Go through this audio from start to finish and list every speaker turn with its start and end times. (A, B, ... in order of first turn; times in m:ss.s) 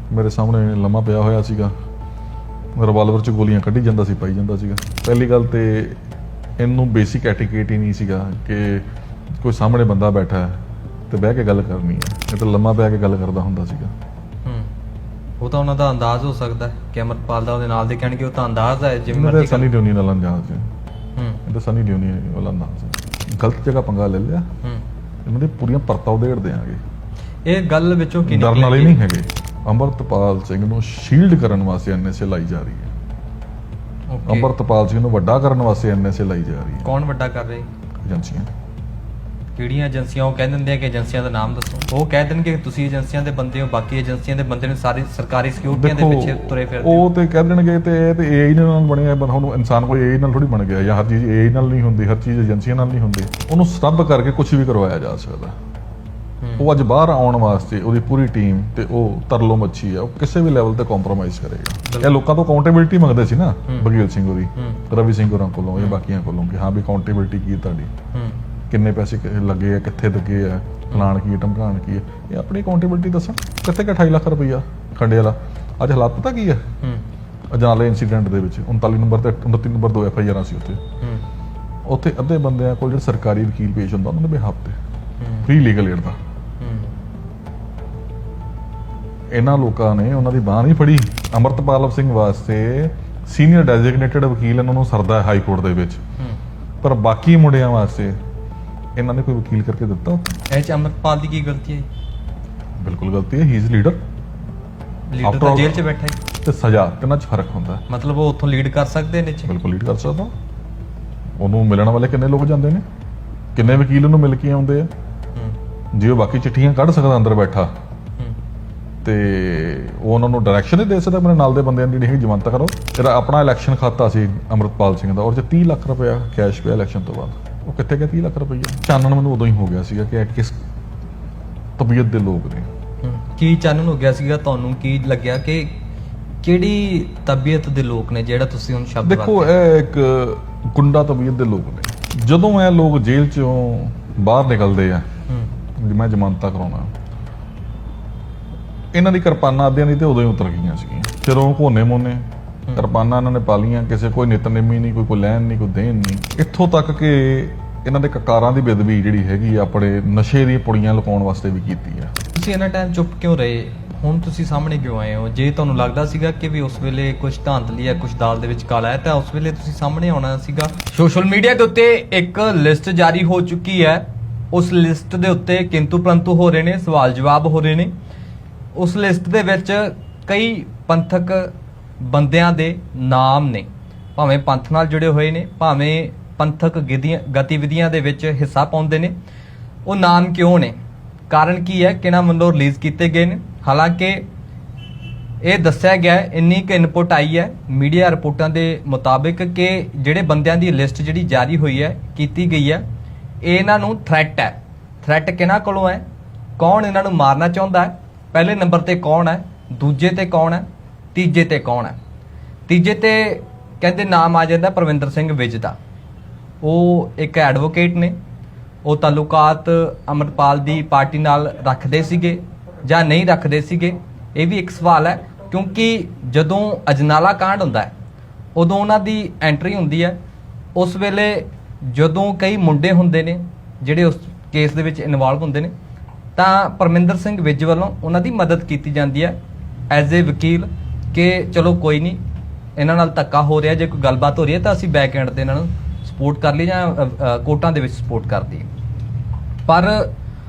0:00.1-0:01.7 A
0:02.8-0:06.0 A
0:06.6-0:08.8 A
0:09.4-0:13.9 A
0:15.4-0:19.7 B
0:19.1-0:20.7 A
0:21.2-0:21.4 B
0:21.4-0:24.4 A
0:25.2-0:26.8 A
0:27.4-0:29.0 B
0:28.2-0:32.9 A
0:34.1-0:34.5 B
0:34.2-0:36.9 A
0:36.8-0:37.6 B
0:38.0-0:38.5 A
0:39.6-0:47.0 B
0:45.7-0:55.5 A
0:56.4-0:56.7 B
0:56.6-1:07.9 A
1:01.9-1:02.1 B
1:08.7-1:16.6 A
1:17.5-1:20.8 A
1:21.8-1:24.8 A
1:25.2-1:25.5 B
1:25.4-1:26.2 A
1:26.6-1:26.9 B
1:29.3-1:36.0 A
1:36.8-1:38.1 A
1:39.0-1:40.2 A
1:40.5-1:41.8 B
1:42.8-1:44.0 A
1:45.1-1:46.2 B
1:45.2-1:45.8 A
1:46.4-1:47.8 A
1:47.9-1:49.5 B
1:49.4-1:50.3 A
1:51.4-1:52.8 A
1:53.5-1:54.9 A
1:55.9-1:57.7 A
1:59.0-2:10.6 A
2:11.8-2:12.6 A
2:13.0-2:15.8 B
2:16.4-2:19.5 B
2:19.0-2:25.0 A
2:25.8-2:26.9 A
2:28.9-2:42.1 A
2:42.3-2:57.9 B
2:58.7-3:09.1 B
3:09.8-3:10.7 B
3:11.3-3:14.2 B
3:15.4-3:22.8 B
3:23.4-3:26.0 B
3:26.6-3:32.0 B
3:32.7-3:35.8 B
3:36.6-3:38.1 B
3:38.8-3:47.9 B
3:48.5-3:50.2 B
3:50.7-3:55.7 B
3:56.4-3:59.4 B
3:59.9-4:02.2 B
4:02.8-4:08.7 B
4:09.6-4:10.1 B